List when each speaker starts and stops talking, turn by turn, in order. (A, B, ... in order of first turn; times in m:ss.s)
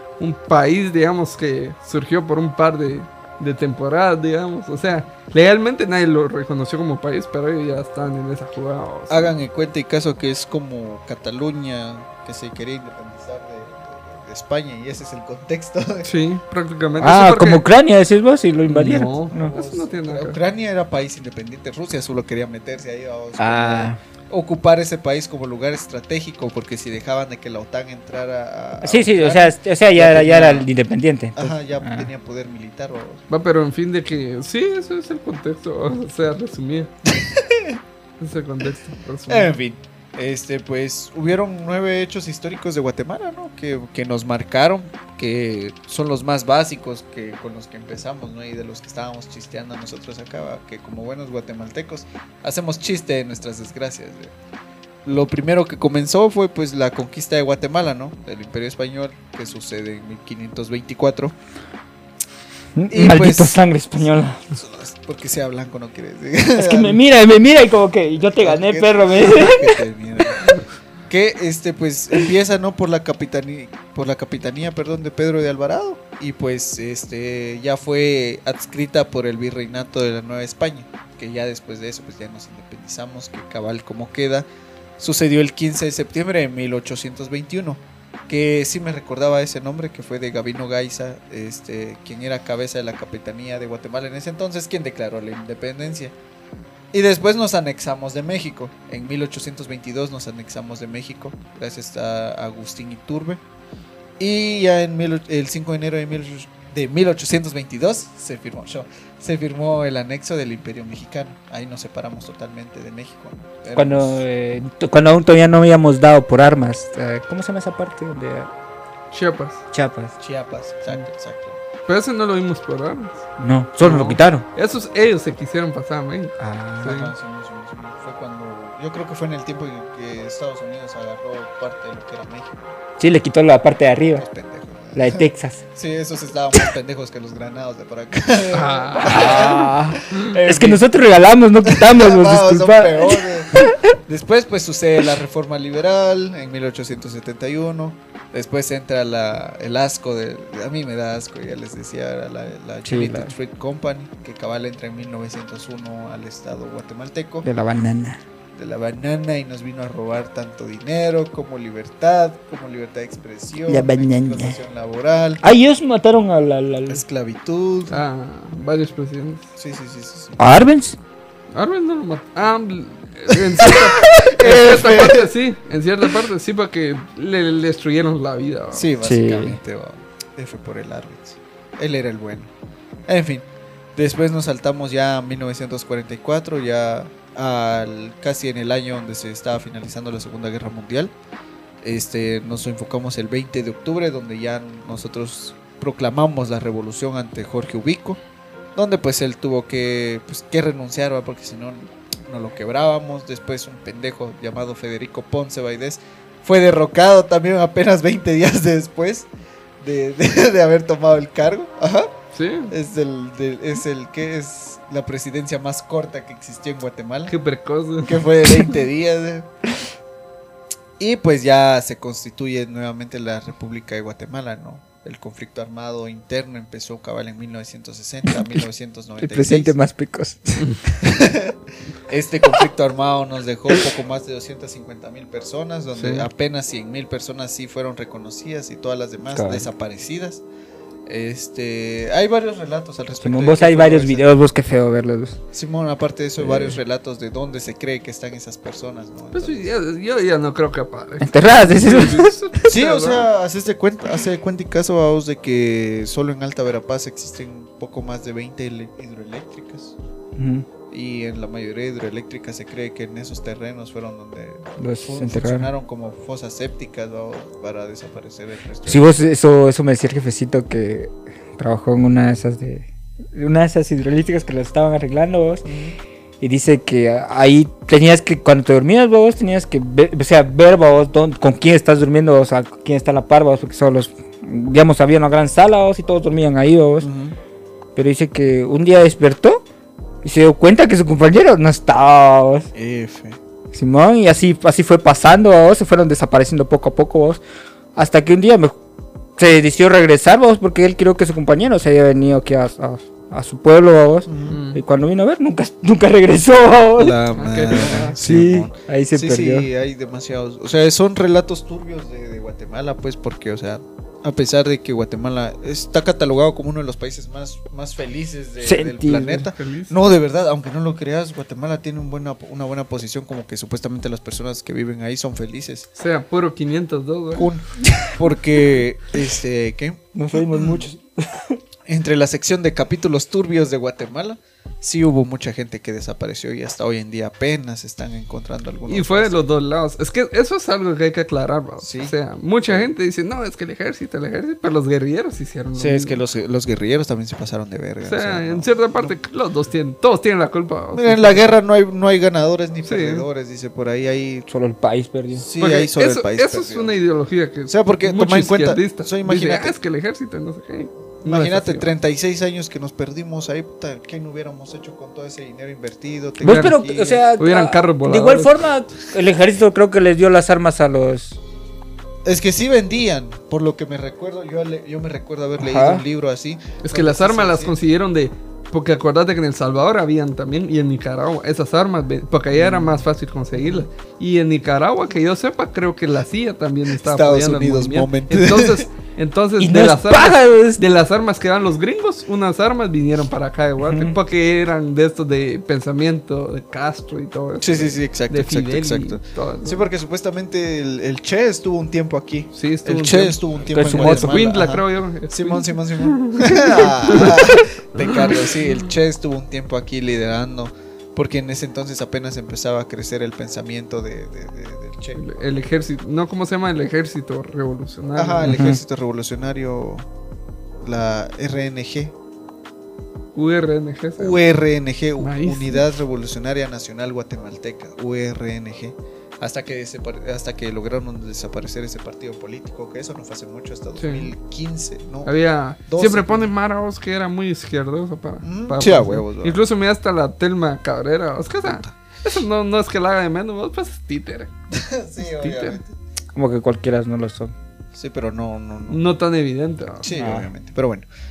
0:00.2-0:09.3 A
0:09.1-0:16.1 B
0:16.0-0:17.6 A
0:17.0-0:19.5 C
0:18.6-0:20.4 A
0:19.3-0:30.7 B
0:23.4-0:24.0 C
0:28.8-0:32.1 C
0:31.4-0:33.2 B
0:33.3-0:36.9 A
0:37.1-0:37.8 B
0:38.2-0:39.5 A
0:39.3-0:54.3 B
0:55.0-1:01.3 B
1:02.8-1:04.4 C
1:02.9-1:03.6 B
1:04.5-1:07.0 B
1:06.6-1:09.8 C
1:08.4-1:24.4 B
1:25.0-1:36.1 B
1:36.9-1:43.4 B
1:44.2-1:54.2 B
1:53.7-1:58.5 C
1:59.1-1:59.6 A
1:59.7-2:00.1 C
2:00.2-2:01.6 B
2:01.9-2:03.3 A
2:03.4-2:04.4 C
2:03.8-2:07.1 A
2:06.4-2:07.0 C
2:06.8-2:12.7 B
2:13.0-2:14.2 C
2:14.2-2:20.8 B
2:14.9-2:15.6 C
2:18.5-2:19.6 A
2:19.0-2:23.8 C
2:21.6-2:37.5 B
2:32.8-2:33.3 C
2:37.4-2:38.2 C
2:38.5-2:45.4 B
2:43.7-2:44.6 C
2:45.4-2:47.0 C
2:46.9-2:48.0 B
2:47.9-2:49.5 A
2:49.6-2:50.4 B
2:50.4-2:51.0 C
2:51.5-2:58.9 A
2:53.6-2:55.3 B
2:58.7-3:02.5 B
2:59.0-2:59.6 C
3:03.1-3:11.1 B
3:11.8-3:18.2 B
3:18.8-3:29.3 B
3:29.8-3:32.1 B
3:32.3-3:32.7 A
3:32.7-3:37.3 B
3:37.3-3:38.2 A
3:38.0-3:39.5 B
3:41.0-3:49.7 B
3:48.3-3:48.6 C
3:49.2-3:50.7 C
3:51.0-4:00.4 B
3:55.9-3:56.3 A
3:59.3-3:59.7 C
4:01.1-4:04.2 B
4:03.2-4:05.4 C
4:05.5-4:09.7 B
4:06.4-4:06.8 C
4:09.3-4:13.3 A
4:11.2-4:12.4 C
4:12.6-4:19.9 B
4:20.4-4:20.7 C
4:20.9-4:29.1 B
4:24.8-4:25.7 C
4:28.8-4:35.6 C
4:35.6-4:36.0 B
4:36.4-4:47.1 C
4:47.0-4:47.4 B
4:48.0-4:49.6 C
4:50.2-4:52.7 C
4:52.7-4:53.4 B
4:53.7-4:57.4 C
4:57.9-4:58.8 C
4:59.4-5:07.2 C
5:04.3-5:04.6 B
5:04.5-5:04.8 A
5:07.0-5:25.9 B
5:07.4-5:08.2 A
5:07.7-5:09.7 C
5:18.6-5:19.5 C
5:19.5-5:19.9 A
5:26.0-5:27.5 A
5:27.3-5:30.0 B
5:30.1-5:31.6 C
5:30.5-5:30.8 B
5:31.9-5:39.4 B
5:38.9-5:46.2 A
5:41.8-5:42.1 B
5:45.8-5:49.2 B
5:48.0-5:51.4 A
5:50.9-5:54.5 B
5:52.8-5:53.2 A
5:54.5-5:55.4 C
5:55.4-5:57.0 B
5:55.6-6:01.9 A
5:57.7-5:59.7 B
6:01.2-6:07.2 B
6:06.4-6:11.4 C
6:06.4-6:06.8 A
6:07.4-6:08.5 A
6:12.2-6:17.7 B
6:15.6-6:16.0 C
6:16.8-6:39.8 A
6:22.5-6:23.0 B
6:23.6-6:23.8 B
6:27.0-6:28.8 B
6:29.6-6:30.8 C
6:33.8-6:34.2 C
6:37.6-6:55.3 B
6:42.5-6:48.8 A
6:43.7-6:44.4 C
6:55.2-6:58.6 A
6:58.2-7:00.1 B
6:58.4-6:58.8 C
7:00.8-7:02.1 B
7:03.3-7:04.4 A
7:04.2-7:15.3 B
7:05.2-7:05.8 A
7:14.0-7:14.3 A
7:15.2-7:24.5 A
7:15.9-7:16.5 B
7:18.4-7:19.6 B
7:21.6-7:21.9 B
7:24.7-7:25.9 B
7:25.2-7:25.8 A
7:26.3-7:27.5 C
7:27.9-7:29.0 B
7:28.9-7:30.1 A
7:30.0-7:31.0 B
7:30.1-7:30.5 C